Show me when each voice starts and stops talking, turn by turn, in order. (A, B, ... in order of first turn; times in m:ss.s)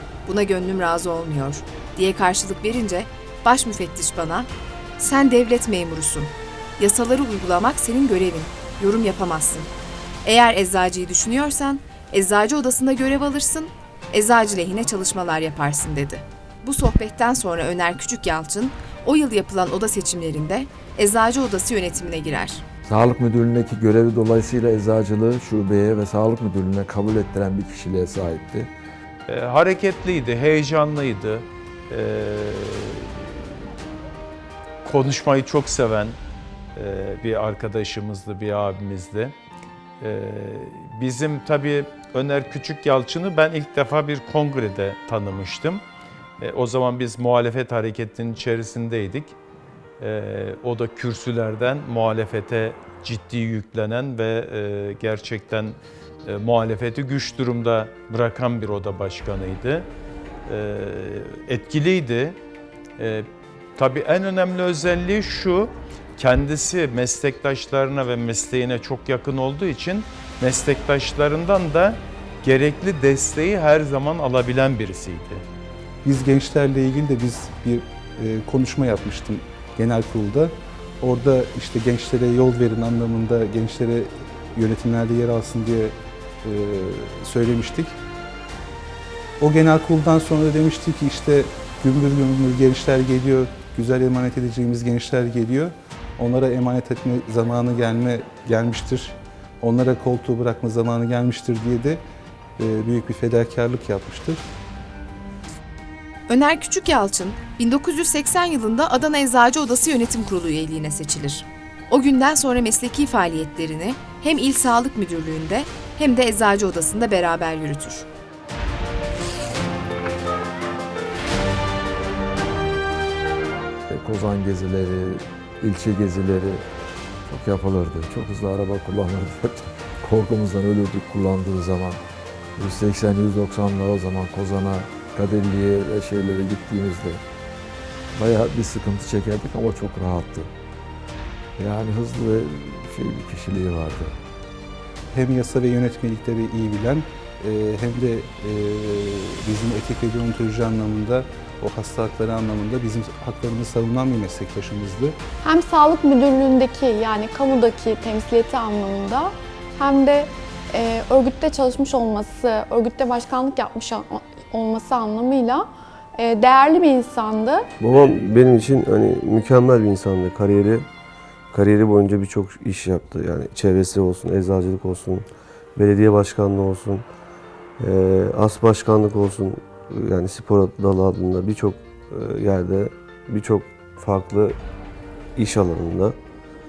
0:00.3-0:09.7 A
0:10.2-0:22.6 A
0:22.8-0:28.7 B
0:29.3-0:33.5 C
0:34.8-0:36.2 C
0:36.8-0:39.4 C
0:40.0-0:45.8 C
0:46.4-0:49.4 C
0:50.0-0:59.9 C
1:00.5-1:02.4 C
1:03.0-1:15.4 C
1:16.0-1:28.0 D
1:29.4-1:42.0 D
1:42.6-1:44.4 D
1:46.3-1:58.1 A
2:03.9-2:06.6 B
2:07.3-2:12.0 B
2:12.6-2:17.2 B
2:18.1-2:20.5 B
2:21.6-2:24.2 B
2:25.1-2:35.2 D
2:35.4-2:47.7 E
2:47.8-2:50.9 F
2:51.5-2:57.1 F
2:57.8-3:04.6 F
3:05.4-3:06.2 F